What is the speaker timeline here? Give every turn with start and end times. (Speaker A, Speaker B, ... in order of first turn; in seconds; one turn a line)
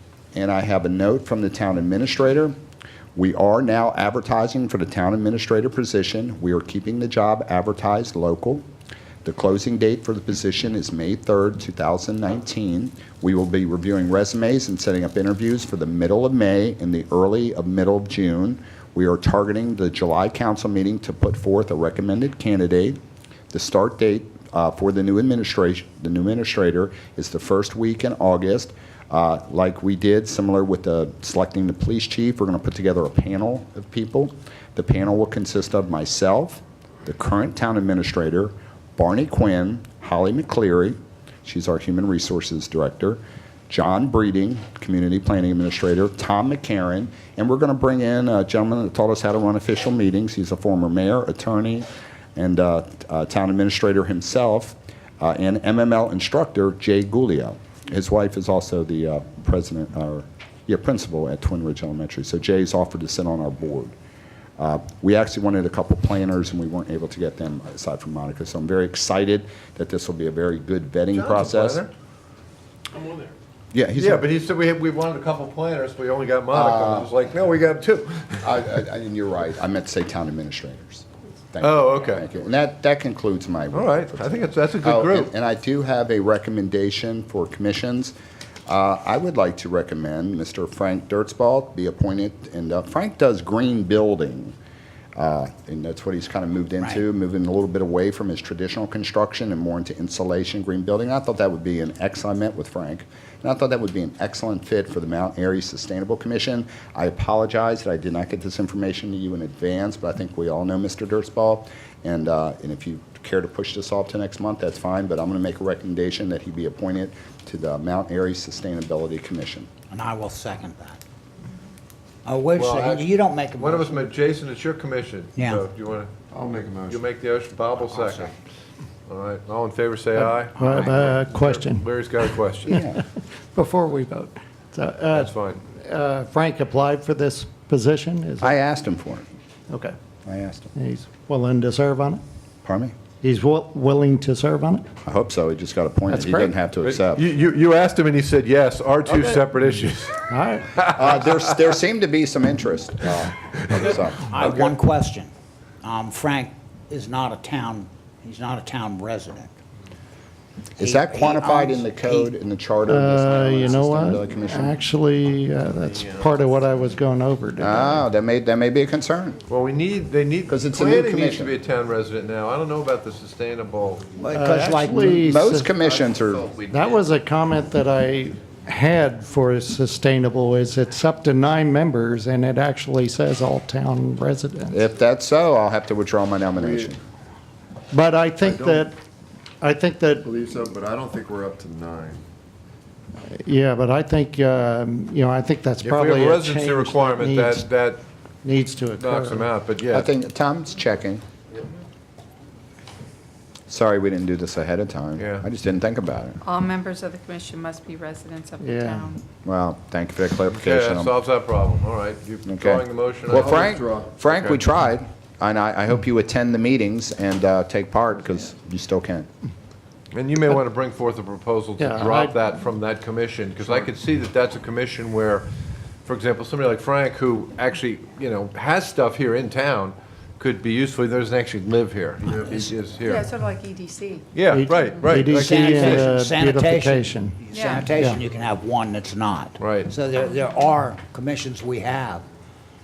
Speaker A: 0.3-2.6
Speaker A: 3.1-8.6
Speaker A: 9.2-23.0
Speaker A: 23.5-63.9
Speaker A: 64.6-71.8
Speaker B: 71.1-71.9
Speaker A: 73.7-74.3
Speaker B: 74.0-78.6
Speaker A: 76.5-77.1
Speaker A: 78.4-88.1
Speaker B: 81.6-82.3
Speaker B: 83.7-85.3
Speaker A: 88.7-94.5
Speaker A: 95.2-119.7
Speaker C: 119.9-121.0
Speaker C: 122.2-124.1
Speaker B: 122.6-126.1
Speaker C: 125.4-125.6
Speaker D: 126.3-127.0
Speaker B: 126.8-128.3
Speaker C: 127.9-128.3
Speaker B: 129.1-132.8
Speaker E: 130.2-131.9
Speaker C: 130.6-130.9
Speaker E: 132.7-138.6
Speaker B: 135.1-135.6
Speaker A: 138.4-139.3
Speaker E: 139.7-139.9
Speaker A: 140.2-140.7
Speaker E: 140.7-142.2
Speaker A: 142.7-142.9
Speaker E: 143.2-144.8
Speaker A: 145.0-147.2
Speaker E: 146.1-146.5
Speaker B: 146.8-150.2
Speaker E: 150.3-150.8
Speaker A: 150.8-154.3
Speaker C: 154.1-155.3
Speaker C: 155.8-159.5
Speaker C: 160.8-162.3
Speaker A: 160.8-164.8
Speaker E: 162.9-168.0
Speaker A: 167.6-169.4
Speaker B: 169.5-174.1
Speaker A: 170.5-171.6
Speaker C: 174.2-175.3
Speaker E: 174.3-175.7
Speaker A: 175.2-176.5
Speaker B: 176.1-177.0
Speaker E: 176.7-184.8
Speaker A: 184.7-187.0
Speaker D: 186.6-186.9
Speaker E: 187.9-188.9
Speaker D: 188.4-188.8
Speaker E: 189.6-190.3
Speaker D: 190.2-192.2
Speaker E: 193.4-197.7
Speaker B: 195.8-198.0
Speaker E: 198.4-199.5
Speaker B: 199.0-200.1
Speaker A: 199.9-201.2
Speaker A: 203.7-206.4
Speaker B: 205.2-205.4
Speaker F: 206.4-209.2
Speaker E: 208.6-209.1
Speaker A: 209.4-211.1
Speaker B: 210.5-214.6
Speaker A: 212.5-219.3
Speaker D: 213.3-214.1
Speaker B: 220.1-225.5
Speaker E: 221.8-222.4
Speaker B: 226.1-233.2
Speaker D: 232.3-232.5
Speaker F: 233.0-235.2
Speaker B: 234.3-236.1
Speaker E: 234.5-238.2
Speaker C: 235.3-242.3
Speaker F: 237.5-237.9
Speaker B: 239.6-239.9